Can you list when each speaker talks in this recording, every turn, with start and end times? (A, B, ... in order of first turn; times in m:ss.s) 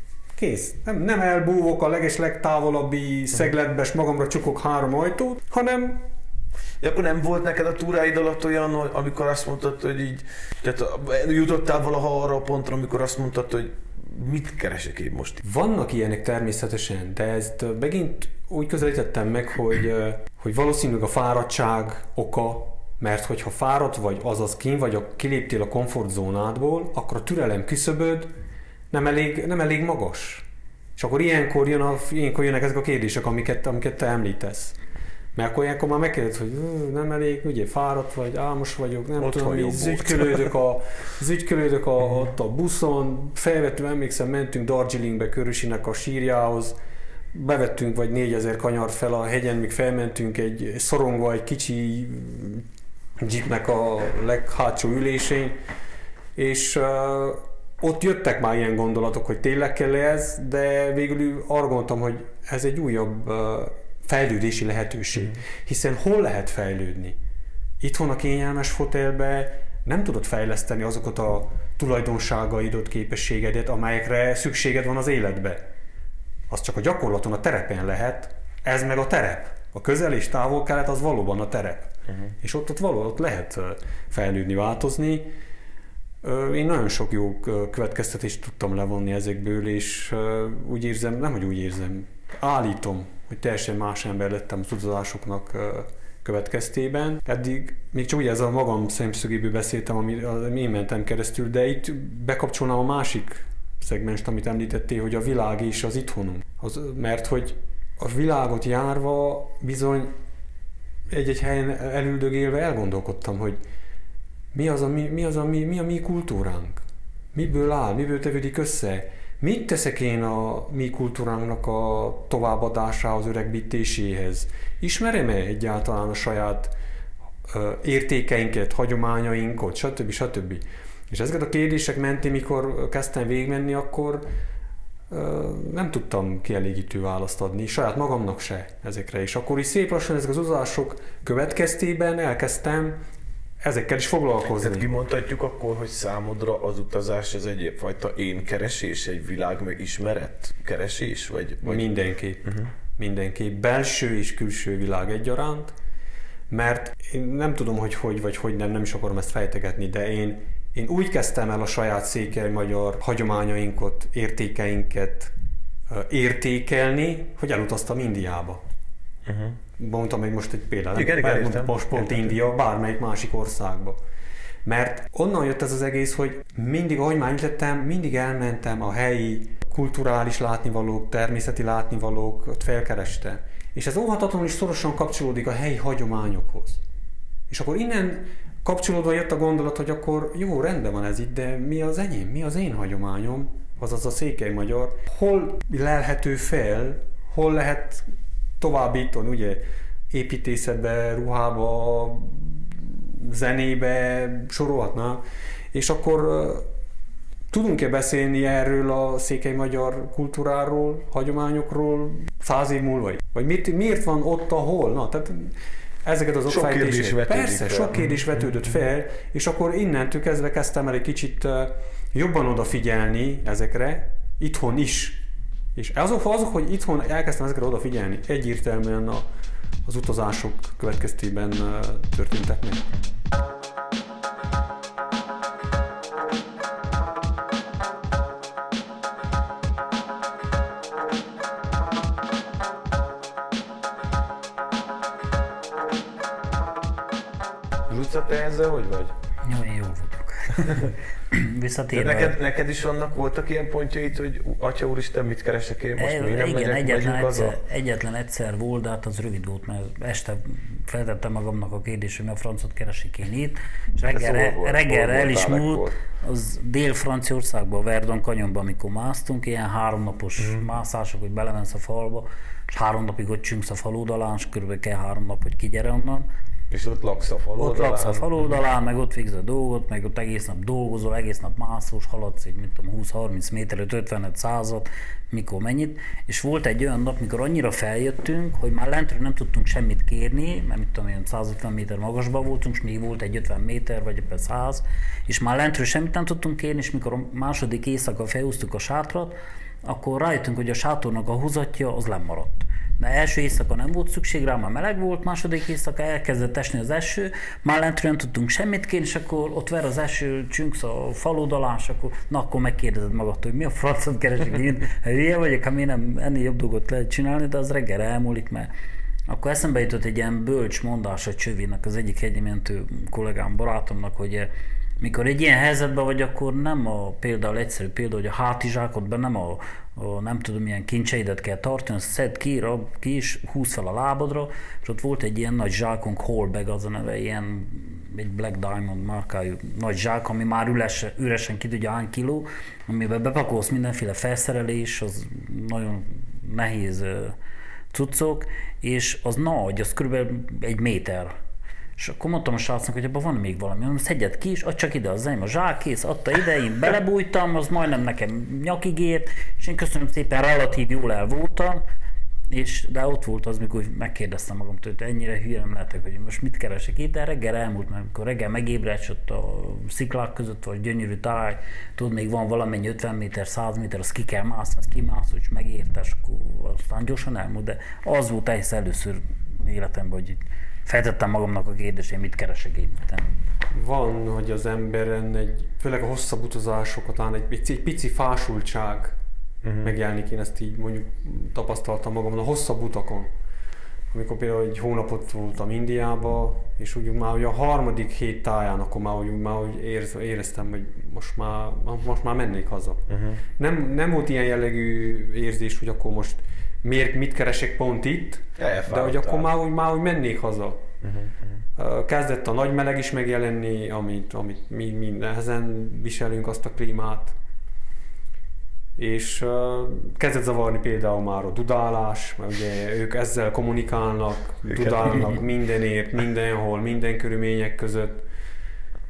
0:00.4-0:06.1 A
0:06.8-0:15.4 B
0:15.4-0:28.3 A
0:28.9-0:34.8 A
0:35.4-0:46.8 A
0:39.2-0:40.5 B
0:47.3-0:52.7 A
0:53.2-0:55.6 A
0:56.4-1:07.2 A
1:07.8-1:15.6 A
1:16.5-1:25.3 A
1:26.2-1:50.1 A
1:51.1-1:53.6 A
1:54.5-2:06.7 A
2:07.5-2:14.3 A
2:15.1-2:23.0 A
2:23.6-2:24.9 A
2:24.6-2:31.9 B
2:31.6-2:35.7 A
2:36.5-2:45.3 A
2:45.9-2:48.6 A
2:49.3-2:49.6 B
2:49.8-2:54.0 A
2:51.0-2:52.3 B
2:54.6-3:06.8 A
3:07.5-3:18.1 A
3:18.6-3:26.7 A
3:27.5-3:49.3 A
3:36.5-3:38.2 B
3:49.8-3:52.9 A
4:07.9-4:09.1 B
4:09.4-4:12.4 C
4:11.9-4:17.6 B
4:16.0-4:36.3 C
4:24.1-4:26.0 B
4:36.7-4:38.3 B
4:37.6-4:59.3 C
4:59.8-5:18.7 C
5:19.3-5:47.4 C
5:47.9-5:51.3 C
5:52.0-6:01.8 C
6:02.5-6:23.3 C
6:23.7-6:29.2 A
6:29.6-6:29.9 B
6:29.8-6:33.3 A
6:34.1-6:43.0 A
6:43.1-6:43.4 B
6:43.6-6:50.9 A
6:48.6-6:49.5 B
6:51.0-6:51.6 B
6:51.8-6:57.4 A
6:59.0-7:08.3 A
7:04.6-7:05.4 B